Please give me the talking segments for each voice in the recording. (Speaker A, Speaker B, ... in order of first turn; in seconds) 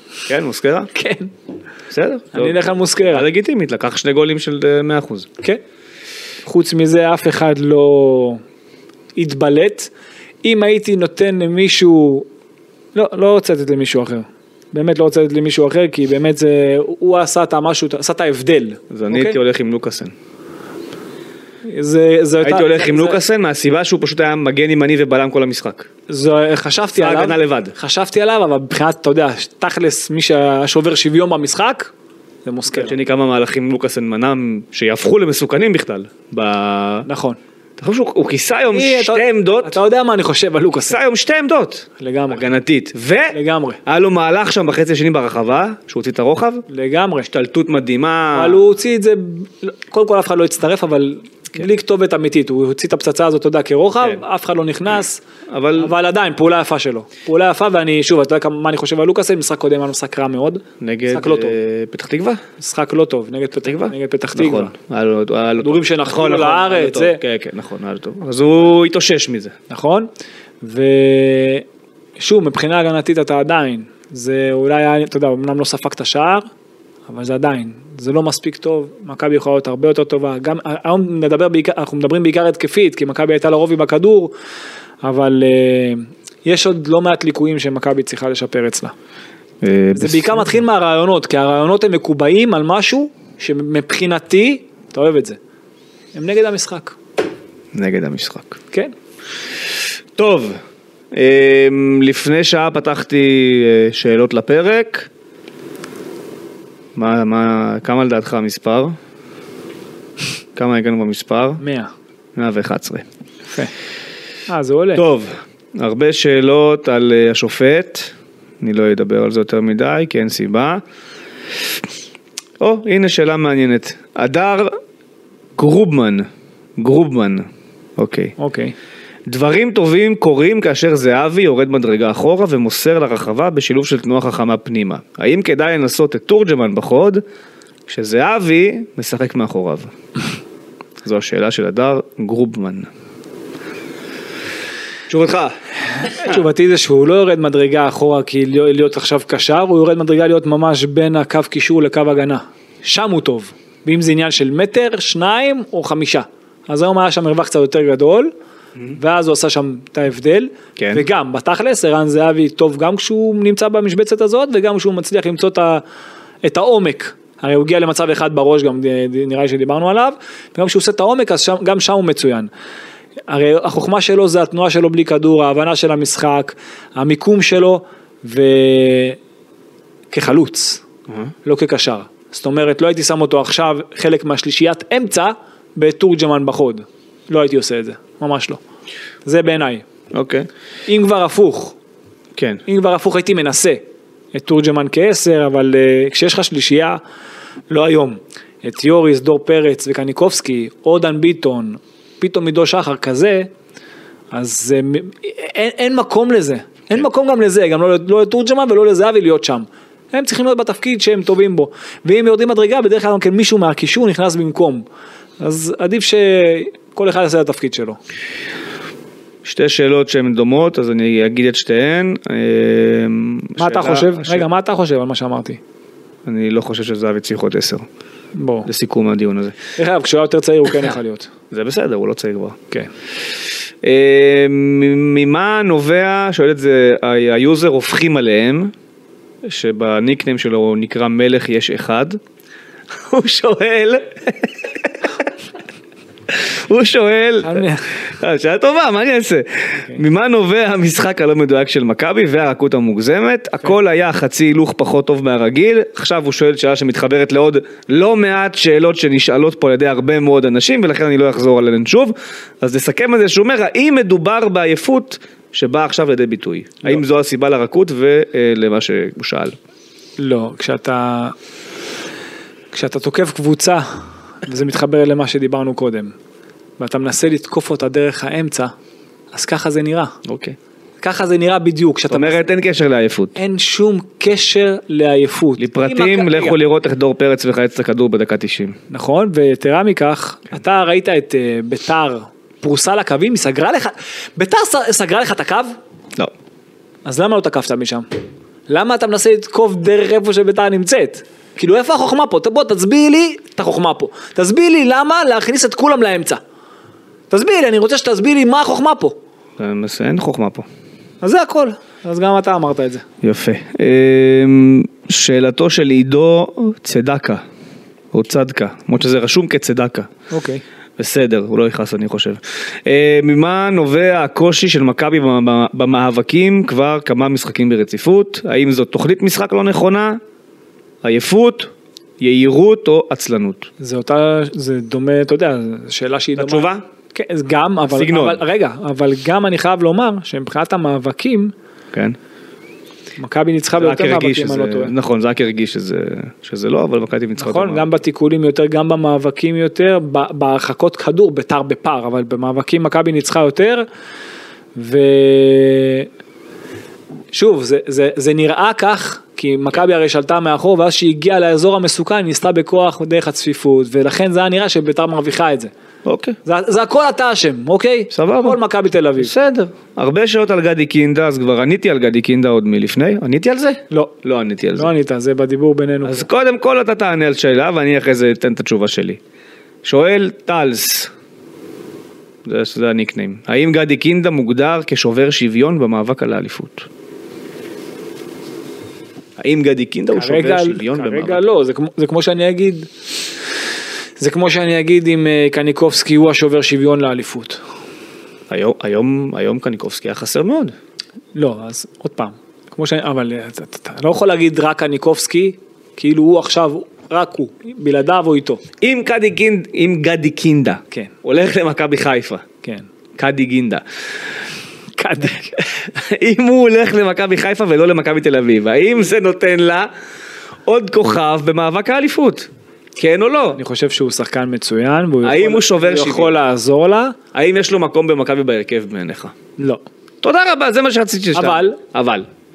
Speaker A: 0.3-0.9, 1.9-5.3, 18.9-20.1, 22.4-25.9, 27.0-27.8, 32.7-37.1, 37.8-39.8, 40.9-46.7, 47.3-48.6, 55.5-55.9, 60.8-62.4, 63.6-69.5, 89.6-90.5, 97.7-98.6, 100.2-100.6, 101.1-105.1, 107.0-109.0, 110.6-111.6, 112.4-113.0, 115.0-120.8, 122.6-124.8, 125.6-127.5, 128.0-128.3, 129.3-137.2, 137.9-139.9, 141.0-142.9, 145.1-145.6, 160.8-161.1, 190.1-190.5, 192.3-192.6, 219.4-224.5, 226.3-227.9, 228.7-229.6, 231.5-232.6, 233.8-238.7, 239.4-242.2, 243.0-245.3, 246.3-269.6, 280.2-280.6, 282.1-283.4, 285.6-288.8, 309.6-310.7, 313.2-317.4, 318.1-320.1, 321.0-330.2, 331.0-333.7, 336.4-336.8, 337.9-338.4, 343.8-347.9, 366.1-366.4, 368.1-368.6, 369.2-374.9, 376.0-379.2, 379.8-381.1, 382.4-386.9, 389.4-391.4, 398.5-400.8, 408.8-412.4, 413.2-413.8, 415.6-419.9, 420.7-423.6, 425.2-426.4, 427.3-429.4, 430.2-432.3
Speaker B: 0.9-1.3, 2.3-3.2, 6.5-8.4, 9.2-9.9, 10.4-12.3, 12.9-19.4, 21.6-23.2, 26.1-31.9, 32.5-33.0, 37.1-37.4, 38.7-41.0, 42.0-42.5, 43.3-43.8, 46.7-47.3, 48.3-55.2, 55.8-61.6, 62.6-64.7, 65.6-67.2, 69.7-70.1, 70.6-71.7, 72.2-76.5, 77.1-84.3, 85.0-88.9, 89.9-95.4, 96.1-97.0, 111.6-111.9, 114.5-115.0, 128.4-128.7, 146.1-158.3, 158.9-165.8, 166.4-172.5, 173.3-179.2, 180.1-180.8, 181.4-188.6, 189.2-189.8, 190.9-191.8, 192.7-193.8, 194.3-197.0, 197.7-203.5, 204.3-214.8, 215.4-218.0, 223.6-225.6, 228.3-228.7, 229.8-231.3, 247.4-247.9, 270.2-271.4, 272.7-276.1, 276.8-278.7, 279.3-280.2, 281.0-282.5, 283.4-286.6, 288.9-295.8, 297.1-298.1, 298.7-306.4, 307.3-309.2, 311.2-313.1, 320.3-320.6, 333.8-341.5, 343.2-344.9, 347.4-353.9, 354.8-356.1, 357.3-365.7, 366.4-369.3, 374.8-376.3, 390.1-392.9, 394.2-397.6, 401.4-408.6, 415.0-415.6, 423.6-427.2, 429.6-429.8, 431.3-431.8